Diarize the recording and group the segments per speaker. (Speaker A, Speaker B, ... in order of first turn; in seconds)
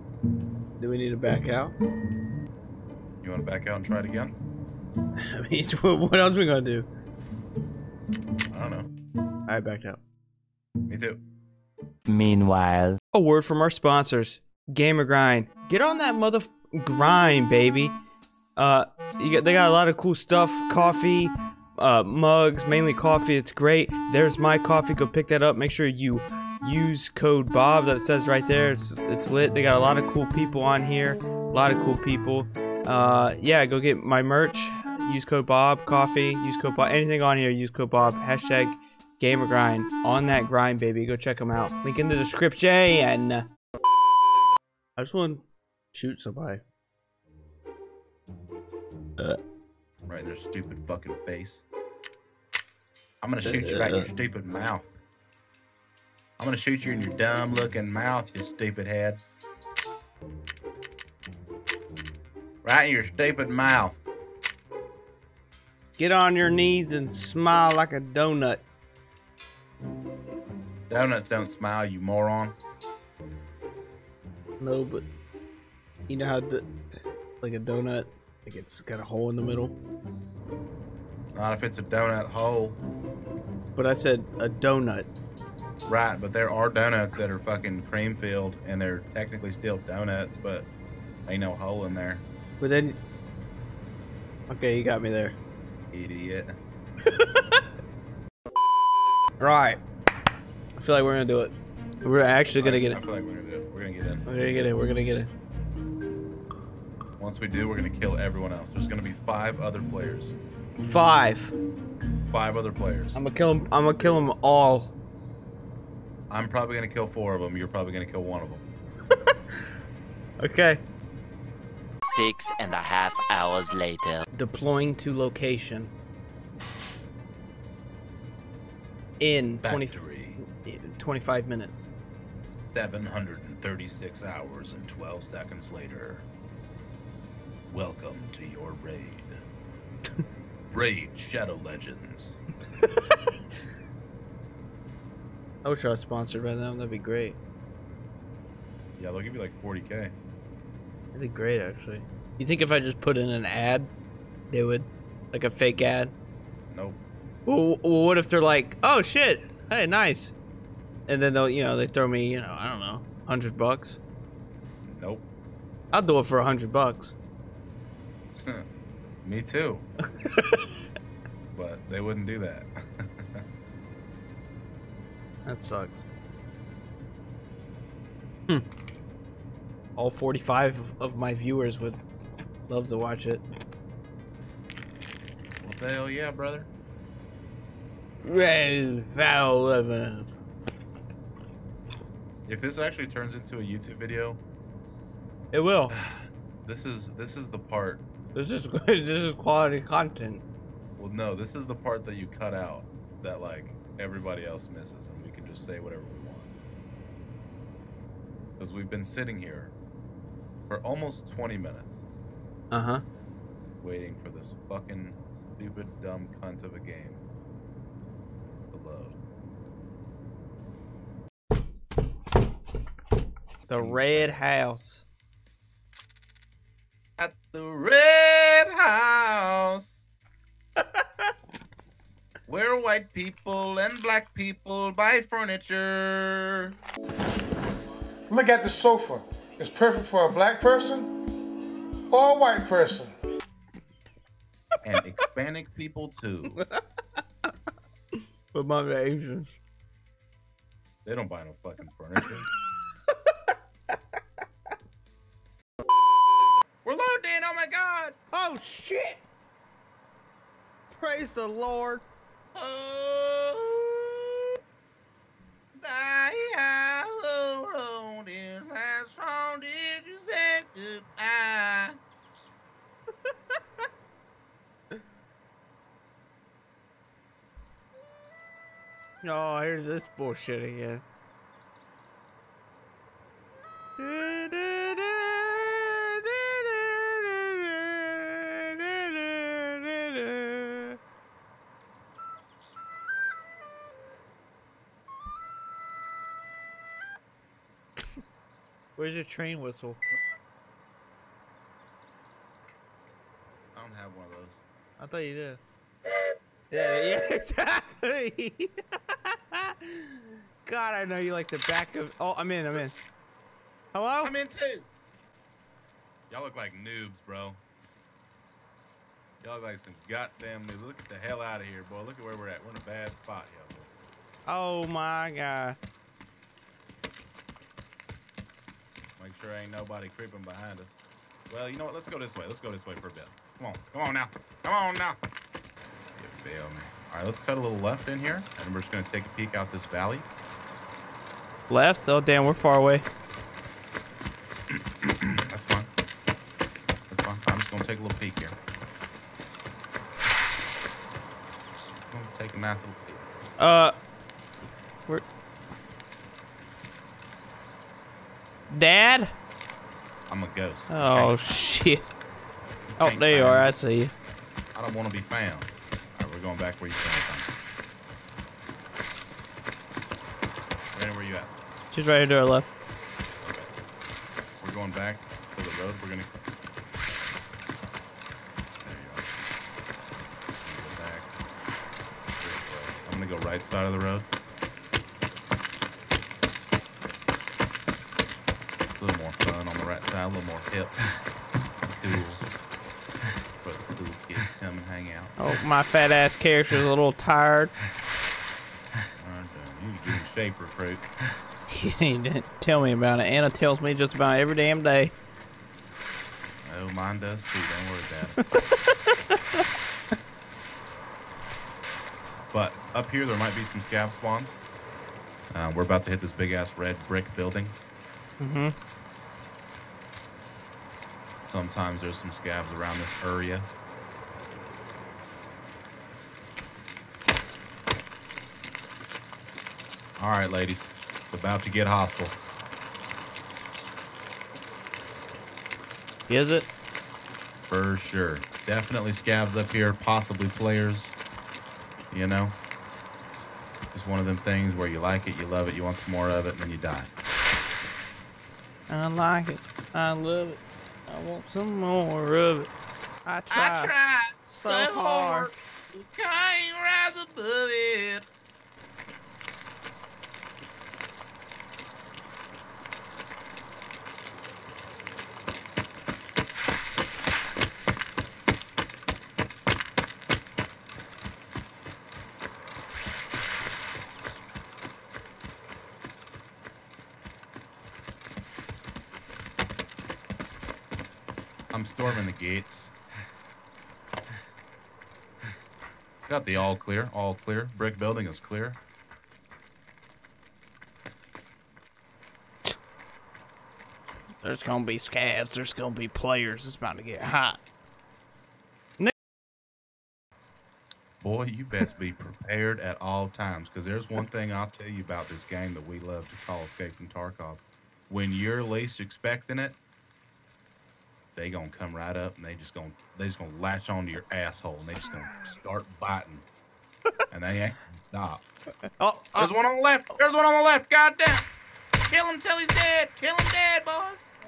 Speaker A: 0.8-1.7, 5.2-6.9, 9.5-10.0, 13.1-17.9, 18.6-43.4, 45.0-46.6, 53.4-54.1, 66.0-68.6, 74.6-75.1, 76.1-76.7, 77.4-79.8, 83.7-85.1, 92.6-93.0, 94.5-95.3, 97.0-97.6, 99.4-99.8, 100.8-103.0, 104.2-105.3, 110.8-111.5, 113.1-115.0, 120.4-120.8, 124.3-125.9, 129.2-131.9, 145.6-147.4, 151.1-153.9, 154.5-156.1, 157.4-160.3, 161.1-164.0, 165.9-167.1, 170.2-170.7, 175.4-176.0, 179.9-182.0, 182.7-183.4, 188.2-190.3, 195.5-195.9, 198.3-200.4, 212.7-213.0, 223.7-225.0, 246.5-246.8, 248.5-249.6, 258.3-259.2, 260.9-262.1, 279.2-281.0, 284.0-291.0, 298.9-300.0, 305.0-305.6, 306.7-308.7, 309.2-312.9, 313.9-314.3, 324.4-325.8, 341.7-343.1, 353.6-353.9, 358.7-359.3, 360.9-362.1, 363.0-364.1, 371.9-372.7, 395.4-397.7, 401.7-405.1, 418.4-418.7, 436.3-436.7, 448.9-452.7, 453.2-453.9, 454.4-455.5, 494.4-497.6, 519.0-519.5
Speaker B: 3.2-4.3, 8.5-8.9, 10.9-11.2, 50.1-51.6, 53.2-54.9, 56.4-59.2, 62.6-64.0, 70.9-72.5, 81.3-82.8, 85.8-90.7, 91.3-92.2, 95.9-96.5, 102.5-104.3, 107.2-110.3, 112.3-113.2, 116.3-118.6, 129.6-130.4, 132.7-136.2, 137.7-139.4, 140.7-142.4, 149.0-150.1, 156.7-157.0, 164.8-165.2, 168.3-168.7, 169.2-169.9, 171.5-173.4, 185.6-186.7, 192.4-194.4, 195.9-198.0, 201.0-206.5, 208.6-209.7, 210.7-212.0, 213.8-217.2, 218.7-219.2, 223.8-224.4, 227.2-230.0, 232.5-236.7, 244.8-246.6, 251.0-252.5, 256.8-258.1, 262.5-264.4, 265.7-271.9, 303.7-304.6, 314.2-314.9, 316.3-317.6, 319.4-323.9, 329.2-331.0, 331.5-335.2, 336.2-340.3, 344.7-345.9, 347.1-348.6, 352.1-353.2, 360.3-361.5, 362.9-363.7, 364.7-367.5, 370.9-371.5, 373.4-373.7, 374.6-376.4, 378.8-379.3, 380.6-381.3, 382.4-384.3, 389.0-391.0, 392.0-392.4, 393.6-395.3, 399.2-401.1, 406.6-408.4, 412.5-414.6, 415.5-417.8, 421.5-423.7, 430.2-432.4, 437.7-441.2, 442.1-442.6, 443.9-447.1, 453.5-458.2, 481.7-482.9, 486.3-488.8, 501.2-509.8, 511.4-516.5, 517.3-518.4, 519.3-521.4, 522.0-524.2
Speaker C: 12.1-13.0, 122.0-124.2
Speaker D: 238.3-241.1, 242.1-243.1